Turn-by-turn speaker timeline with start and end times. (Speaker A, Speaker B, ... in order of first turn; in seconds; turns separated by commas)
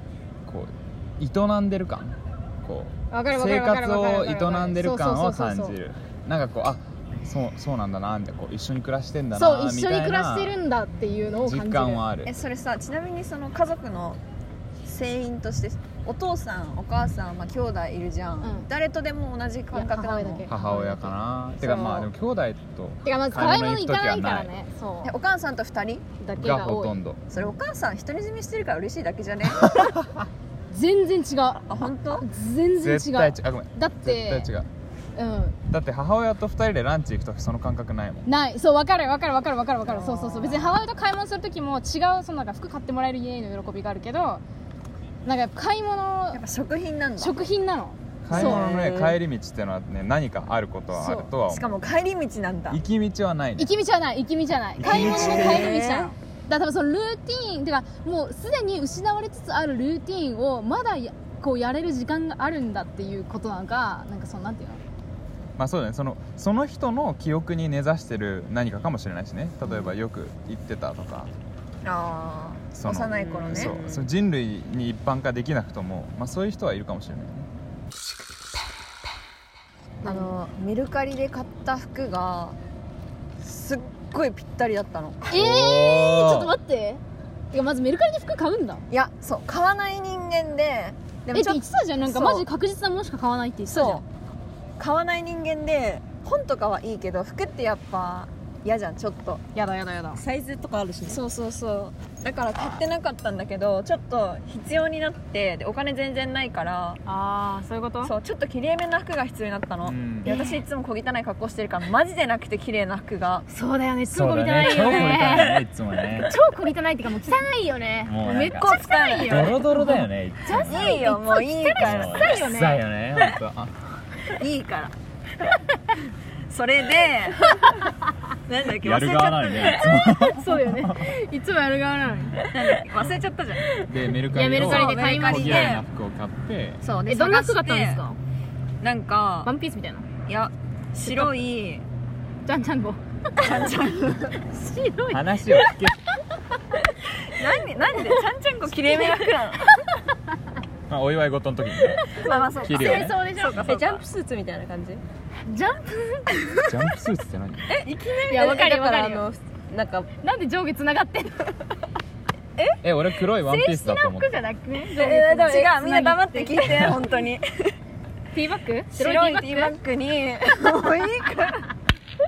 Speaker A: 0.4-10.6, Speaker B: 3.1-5.8, Speaker B: 9.3-12.1, Speaker A: 11.4-12.3, Speaker C: 12.2-14.2, Speaker C: 14.8-20.5, Speaker B: 18.4-18.7, Speaker B: 19.7-22.1, Speaker A: 20.5-24.5, Speaker B: 23.0-25.1, Speaker C: 25.0-26.1, Speaker B: 26.2-27.0, Speaker A: 26.4-27.2, Speaker C: 27.3-29.8, Speaker B: 30.7-34.5, Speaker C: 31.7-32.2, Speaker A: 32.8-34.7, Speaker B: 35.1-35.6, Speaker A: 35.7-38.3, Speaker B: 38.2-44.4, Speaker C: 39.9-40.7, Speaker B: 45.2-46.4, Speaker C: 46.3-47.4, Speaker B: 47.2-48.6, Speaker A: 48.2-51.7, Speaker C: 48.3-49.1, Speaker D: 48.3-49.1, Speaker B: 50.9-51.3, Speaker C: 51.0-52.8, Speaker A: 52.7-53.7, Speaker B: 53.6-64.8, Speaker A: 54.8-55.8, Speaker C: 54.8-56.1, Speaker D: 55.8-56.1, Speaker A: 65.6-71.3, Speaker C: 69.7-69.9, Speaker C: 71.8-73.8, Speaker A: 72.7-77.5, Speaker D: 73.1-74.1, Speaker C: 80.0-82.6, Speaker C: 83.4-85.4, Speaker B: 85.3-88.8, Speaker A: 85.3-86.5, Speaker C: 88.9-92.5, Speaker B: 91.3-94.0, Speaker C: 93.7-94.0, Speaker C: 94.8-99.4, Speaker B: 99.5-100.2, Speaker D: 100.1-101.2, Speaker C: 101.0-107.0, Speaker B: 107.0-108.1, Speaker C: 108.0-113.4, Speaker A: 109.8-110.3, Speaker B: 110.2-110.6, Speaker B: 113.5-115.6, Speaker A: 114.1-116.4, Speaker B: 116.2-123.3, Speaker A: 118.0-121.0, Speaker C: 118.6-119.6, Speaker C: 120.5-122.4, Speaker A: 121.8-124.0, Speaker C: 124.4-124.9, Speaker C: 126.5-127.9, Speaker C: 128.5-129.9, Speaker A: 128.8-131.1, Speaker B: 129.8-132.4, Speaker C: 132.4-133.8, Speaker A: 133.8-136.8, Speaker B: 134.3-135.8, Speaker C: 134.5-135.8, Speaker C: 136.8-138.0, Speaker B: 137.1-138.2, Speaker C: 138.8-139.5, Speaker B: 139.4-140.1, Speaker C: 140.3-141.8, Speaker B: 141.0-141.4, Speaker B: 142.4-143.7, Speaker C: 143.4-144.4, Speaker B: 144.5-145.7, Speaker A: 145.1-146.0, Speaker C: 147.2-149.7, Speaker B: 148.9-149.2, Speaker A: 150.9-153.8, Speaker B: 151.9-153.7, Speaker C: 152.2-154.0, Speaker D: 153.7-155.0, Speaker B: 155.4-156.8, Speaker A: 156.6-157.8, Speaker D: 157.7-160.1, Speaker B: 158.2-159.2, Speaker B: 160.2-161.6, Speaker A: 162.8-164.3, Speaker B: 163.3-167.1, Speaker C: 164.9-167.8, Speaker D: 165.3-165.7, Speaker B: 168.3-169.8, Speaker C: 168.9-171.6